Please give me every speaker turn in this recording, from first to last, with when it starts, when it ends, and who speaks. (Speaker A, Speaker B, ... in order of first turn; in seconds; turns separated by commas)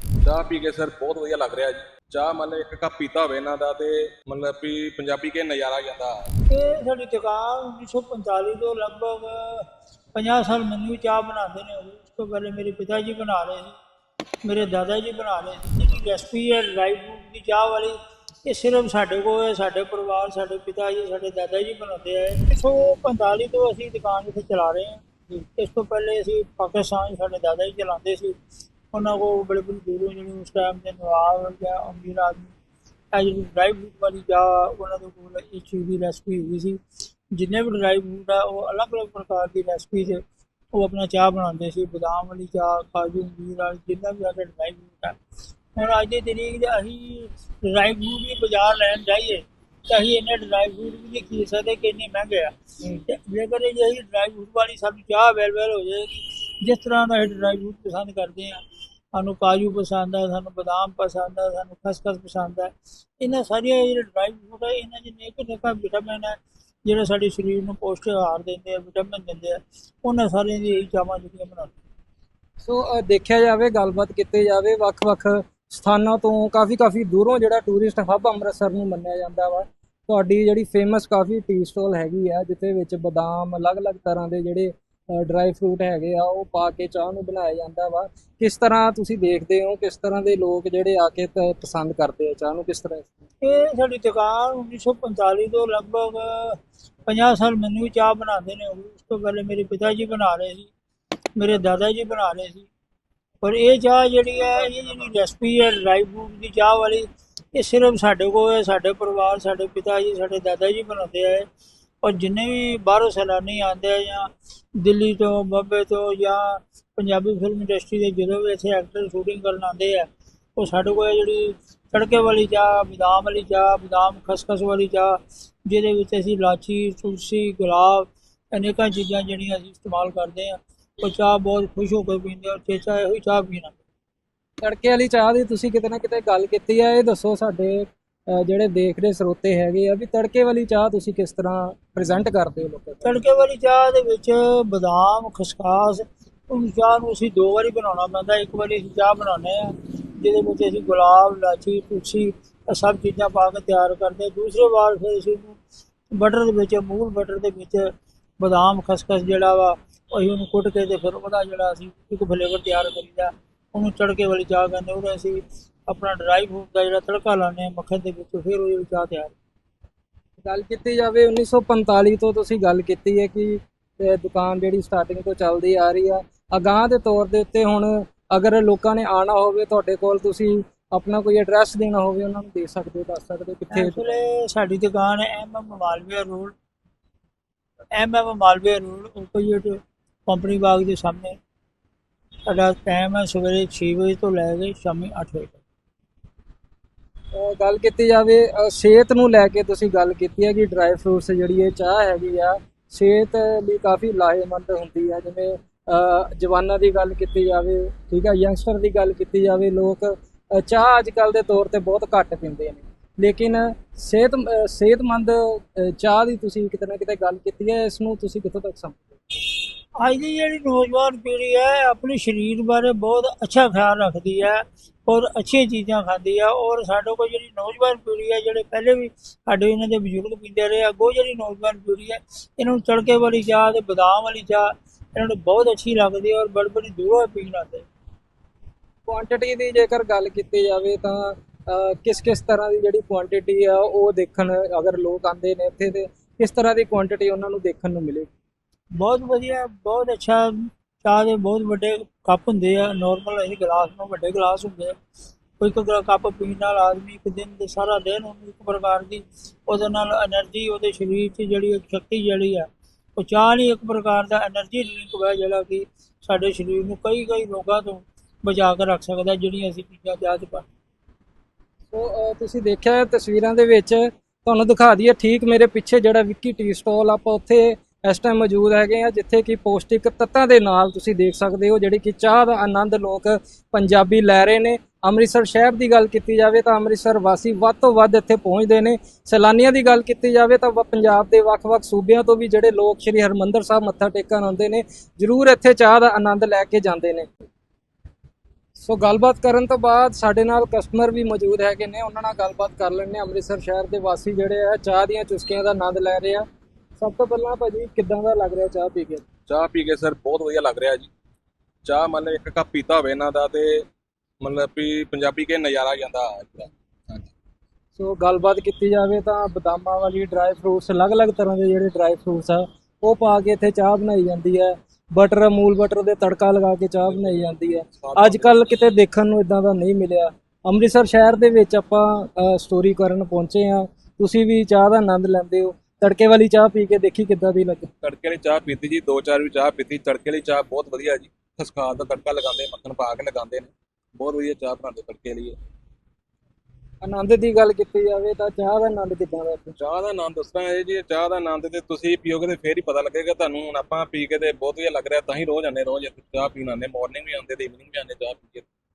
Speaker A: 0.2-6.2, Speaker B: 6.5-13.8, Speaker B: 14.4-28.4, Speaker B: 28.9-32.5, Speaker B: 33.1-36.8, Speaker B: 37.3-40.2, Speaker B: 40.7-45.2, Speaker B: 45.7-52.5, Speaker B: 53.1-58.6, Speaker B: 59.1-71.7, Speaker C: 72.6-93.1, Speaker B: 93.4-100.7, Speaker B: 101.4-102.7, Speaker B: 103.4-111.5, Speaker B: 112.0-133.8, Speaker C: 134.6-143.2, Speaker B: 143.0-155.6, Speaker B: 156.1-169.3, Speaker C: 170.4-184.2, Speaker B: 183.7-186.5, Speaker B: 188.0-191.4, Speaker B: 192.5-195.6, Speaker C: 197.3-219.1, Speaker B: 220.0-237.9, Speaker C: 239.1-248.3, Speaker B: 249.0-254.9, Speaker B: 255.6-270.7, Speaker C: 271.9-297.5, Speaker C: 298.8-306.4, Speaker C: 307.0-309.2, Speaker A: 309.5-311.1, Speaker A: 311.9-313.9, Speaker A: 314.4-317.3, Speaker C: 318.0-337.9, Speaker A: 327.1-328.6, Speaker A: 338.0-345.6, Speaker C: 347.0-349.8, Speaker A: 349.8-358.7